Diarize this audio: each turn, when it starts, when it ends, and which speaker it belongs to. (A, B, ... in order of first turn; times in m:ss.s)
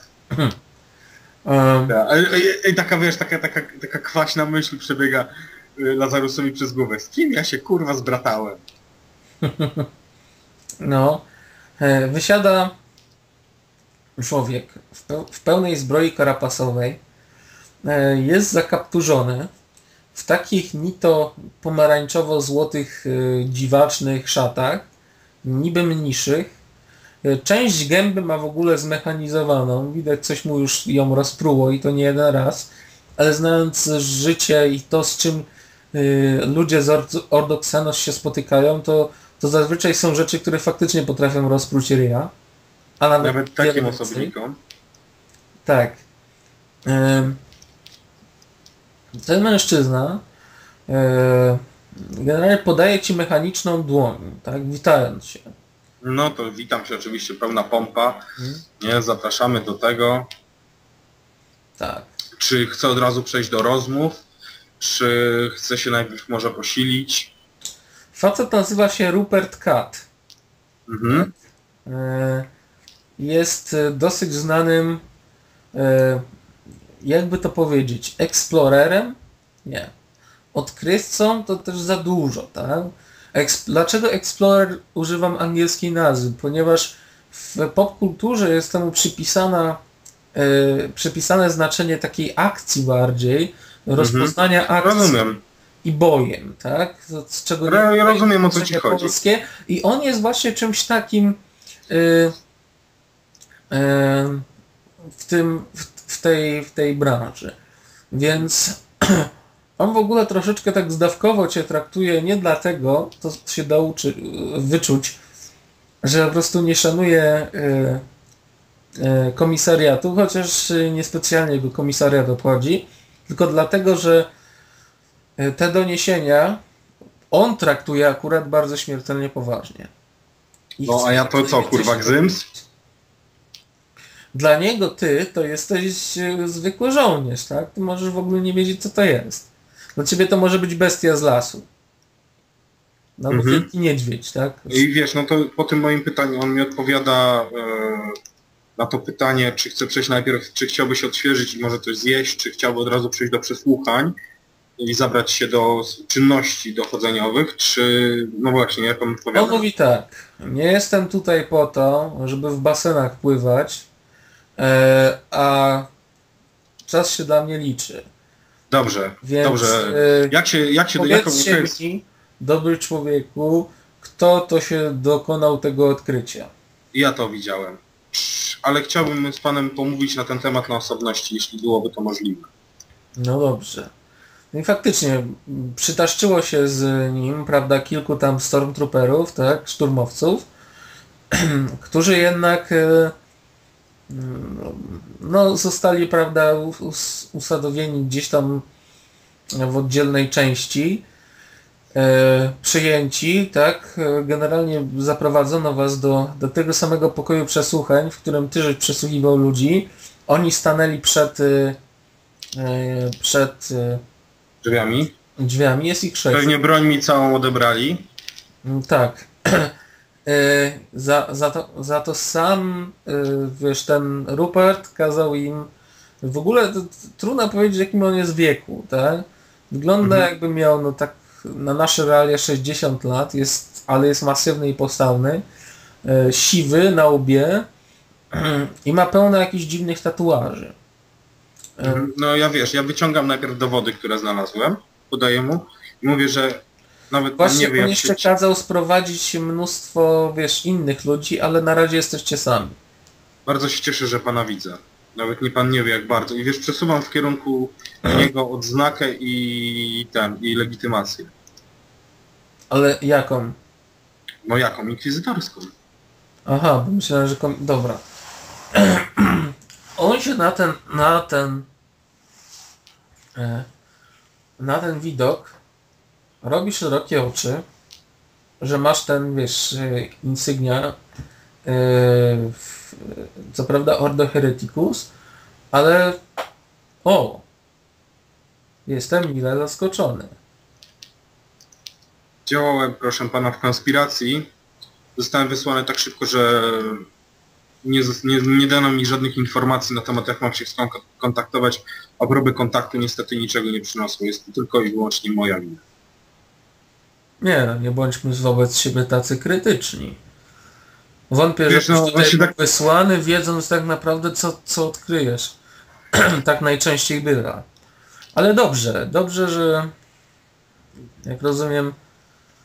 0:01.5-0:02.0 A
0:01.9-0:08.6 B
0:09.4-0:09.9 A
0:10.8-0:11.2 A
0:11.8-0:12.7 A
0:14.2-0:17.0 A
0:17.8-0:19.5 A
0:20.1-0:24.9 A
0:25.4-0:26.5 A
0:27.2-0:42.3 A
0:43.0-0:44.3 A
0:43.2-0:44.6 B
0:45.6-0:46.0 A
0:46.9-0:47.4 A
0:49.2-0:50.2 A
0:50.9-0:55.5 A
0:56.0-0:58.2 B
0:58.4-0:58.6 A
0:58.8-1:00.3 B
1:01.8-1:02.1 A
1:02.4-1:04.1 B
1:04.8-1:07.3 B
1:08.1-1:10.1 A
1:10.9-1:11.3 B
1:11.9-1:12.5 A
1:13.2-1:15.0 A
1:15.7-1:16.2 A
1:17.0-1:19.9 A
1:20.5-1:29.8 A
1:30.3-1:35.2 A
1:34.0-1:35.4 B
1:35.8-1:41.4 A
1:37.7-1:39.1 B
1:41.9-1:42.3 A
1:43.7-1:44.4 A
1:45.2-1:47.6 A
1:48.1-1:55.2 A
1:56.0-1:58.0 A
1:59.0-2:04.3 A
2:05.4-2:06.6 A
2:07.3-2:09.9 A
2:10.8-2:12.6 A
2:10.8-2:12.4 B
2:14.3-2:21.7 A
2:23.2-2:24.9 A
2:23.3-2:23.7 B
2:24.7-2:28.2 B
2:28.8-2:34.2 B
2:34.8-2:39.6 B
2:39.3-2:43.9 A
2:44.6-2:45.9 A
2:46.9-2:48.0 A
2:48.7-2:51.8 B
2:49.2-2:50.3 A
2:50.9-2:56.5 A
2:56.9-3:02.5 B
3:03.2-3:03.9 A
3:04.5-3:10.4 A
3:11.3-3:13.1 A
3:14.1-3:18.6 A
3:19.5-3:21.0 A
3:21.9-3:31.8 A
3:32.6-3:34.0 A
3:34.6-3:35.1 B
3:35.4-3:36.5 A
3:36.3-3:38.1 B
3:38.6-3:39.7 A
3:40.2-3:45.7 A
3:46.2-3:55.4 A
3:50.0-3:50.3 B
3:56.0-3:57.7 A
3:58.3-4:00.8 A
4:01.8-4:02.1 A
4:01.8-4:08.3 B
4:07.4-4:12.8 A
4:13.4-4:21.3 B
4:22.7-4:23.6 A
4:24.4-4:25.7 B
4:26.4-4:28.0 A
4:28.7-4:31.7 A
4:33.4-4:33.7 A
4:34.6-4:35.6 A
4:36.4-4:37.6 A
4:38.6-4:41.0 A
4:41.6-4:45.1 A
4:45.7-4:46.2 A
4:47.0-4:47.4 A
4:48.9-4:50.4 A
4:52.4-4:54.5 B
4:55.2-4:57.0 B
4:57.8-5:05.8 B
5:07.4-5:10.2 A
5:11.3-5:15.6 A
5:11.7-5:12.6 B
5:16.2-5:17.7 A
5:18.3-5:19.9 A
5:21.2-5:21.9 A